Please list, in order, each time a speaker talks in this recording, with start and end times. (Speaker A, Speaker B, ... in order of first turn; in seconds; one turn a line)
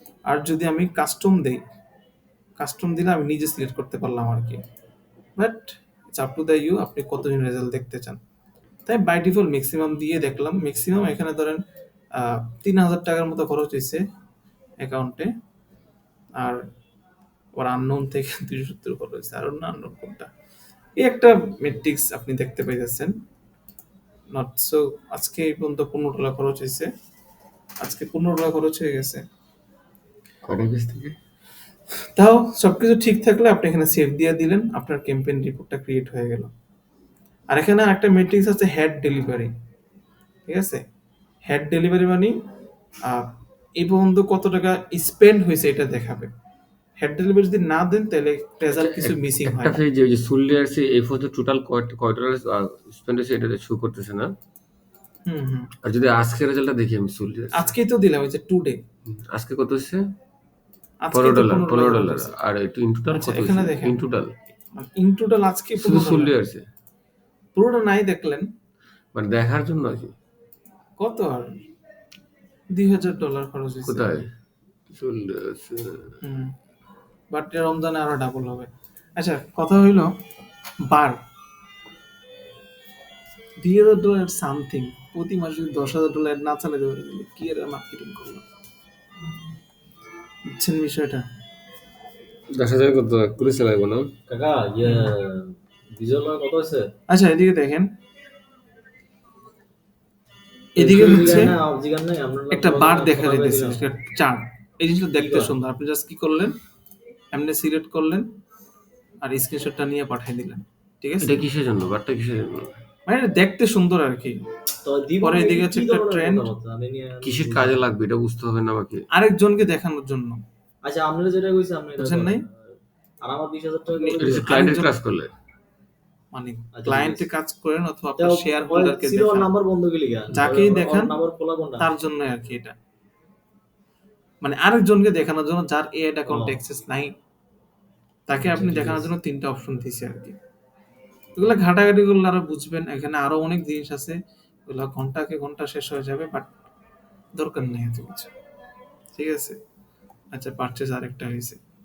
Speaker A: 0.3-1.6
Speaker A: 2.6-4.6
Speaker A: 5.4-8.2
Speaker A: 8.9-11.6
Speaker A: 12.2-14.0
Speaker A: 14.8-15.3
Speaker A: 17.6-20.3
Speaker A: 21.0-23.1
Speaker A: 24.3-26.9
Speaker A: 27.8-29.2
Speaker B: 30.4-31.2
Speaker A: 32.1-36.5
Speaker A: 37.5-39.5
Speaker A: 40.5-40.8
Speaker A: 41.5-42.4
Speaker A: 43.0-46.3
Speaker A: 47.0-49.8
Speaker B: 48.7-54.3
Speaker A: 55.3-55.7
Speaker B: 55.8-57.7
Speaker A: 57.5-58.8
Speaker B: 59.1-60.0
Speaker A: 61.0-62.3
Speaker B: 61.1-64.3
Speaker A: 63.1-64.0
Speaker A: 64.8-66.3
Speaker B: 65.8-66.6
Speaker A: 67.5-68.5
Speaker B: 69.1-70.1
Speaker A: 71.0-71.6
Speaker A: 72.7-74.2
Speaker B: 73.8-74.3
Speaker B: 74.9-76.2
Speaker A: 76.2-76.5
Speaker A: 77.3-80.1
Speaker A: 80.9-81.2
Speaker A: 83.6-88.4
Speaker A: 90.5-91.2
Speaker B: 92.5-94.1
Speaker C: 94.3-96.9
Speaker A: 94.8-95.1
Speaker A: 97.1-97.9
Speaker A: 100.8-101.5
Speaker C: 100.8-103.8
Speaker B: 100.9-101.5
Speaker A: 102.5-106.6
Speaker C: 105.2-105.5
Speaker A: 107.3-108.3
Speaker A: 109.2-111.4
Speaker B: 111.2-112.7
Speaker A: 113.1-114.4
Speaker C: 114.8-117.8
Speaker A: 115.2-116.5
Speaker B: 117.2-119.1
Speaker A: 119.1-120.4
Speaker C: 120.8-122.5
Speaker A: 122.0-122.4
Speaker C: 123.2-124.5
Speaker A: 124.0-124.9
Speaker B: 124.2-125.3
Speaker A: 126.3-129.5
Speaker C: 126.8-127.2
Speaker C: 128.2-131.8
Speaker A: 130.3-131.1
Speaker A: 131.8-132.7
Speaker A: 134.4-137.1
Speaker C: 136.3-136.6
Speaker A: 138.3-140.4
Speaker C: 138.5-139.1
Speaker A: 141.4-146.5
Speaker A: 147.4-148.3
Speaker A: 149.1-149.6
Speaker A: 150.3-151.6